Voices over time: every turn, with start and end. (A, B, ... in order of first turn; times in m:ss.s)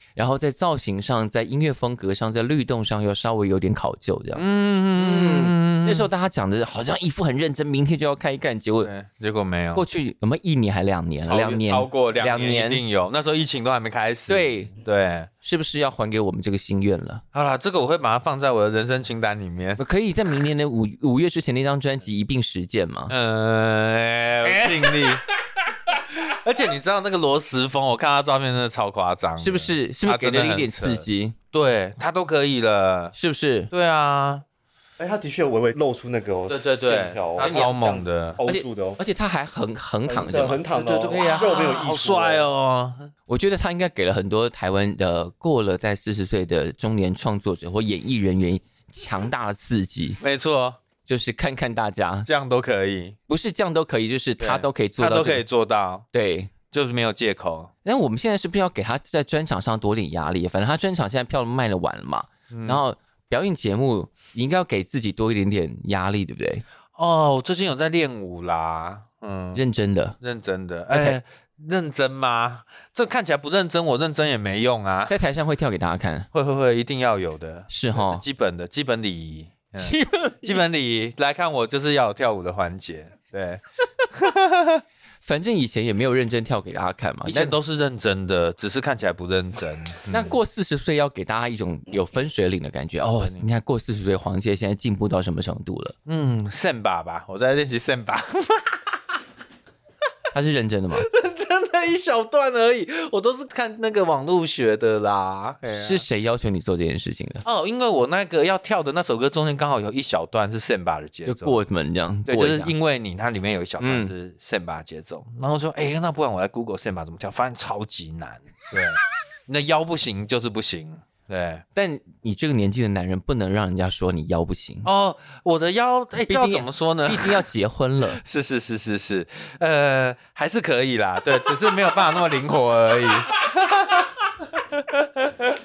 0:00.2-0:08.9 A
0:04.3-0:06.1 B
0:08.8-0:09.8 B
0:09.7-0:12.8 A
0:11.2-0:15.3 B
0:14.3-0:14.7 A
0:15.4-0:17.2 A
0:17.3-0:19.8 B
0:19.8-0:23.1 A
0:23.1-0:25.2 B
0:24.4-0:25.1 A
0:25.9-0:33.2 B
0:29.4-0:31.4 A
0:33.2-0:33.7 A
0:33.7-0:34.4 B
0:35.0-0:39.0 C
0:36.5-0:38.4 B
0:37.4-0:37.7 A
0:38.4-0:41.5 A
0:40.0-0:42.4 C
0:40.7-0:43.1 B
0:43.3-0:50.2 A
0:50.2-0:50.8 B
0:51.0-0:52.3 A
0:52.3-0:53.2 B
0:53.3-0:55.4 A
0:54.4-0:56.0 B
0:56.1-0:56.5 A
0:56.7-0:57.7 B
0:57.8-1:06.6 A
1:02.5-1:02.8 B
1:07.0-1:09.6 B
1:09.5-1:10.2 A
1:10.2-1:15.2 B
1:10.9-1:11.2 A
1:15.1-1:16.3 A
1:16.3-1:24.8 B
1:17.7-1:18.2 A
1:19.7-1:20.6 A
1:25.2-1:27.5 A
1:27.2-1:30.4 B
1:30.1-1:36.0 A
1:33.2-1:33.4 B
1:36.0-1:39.0 B
1:40.3-1:41.1 A
1:41.0-1:46.0 B
1:45.7-1:47.4 A
1:47.4-1:51.6 B
1:51.2-1:52.7 A
1:52.3-2:01.6 B
1:53.8-1:54.1 A
2:01.7-2:04.9 A
2:04.8-2:07.4 B
2:06.2-2:08.2 A
2:08.1-2:14.0 B
2:14.8-2:15.5 B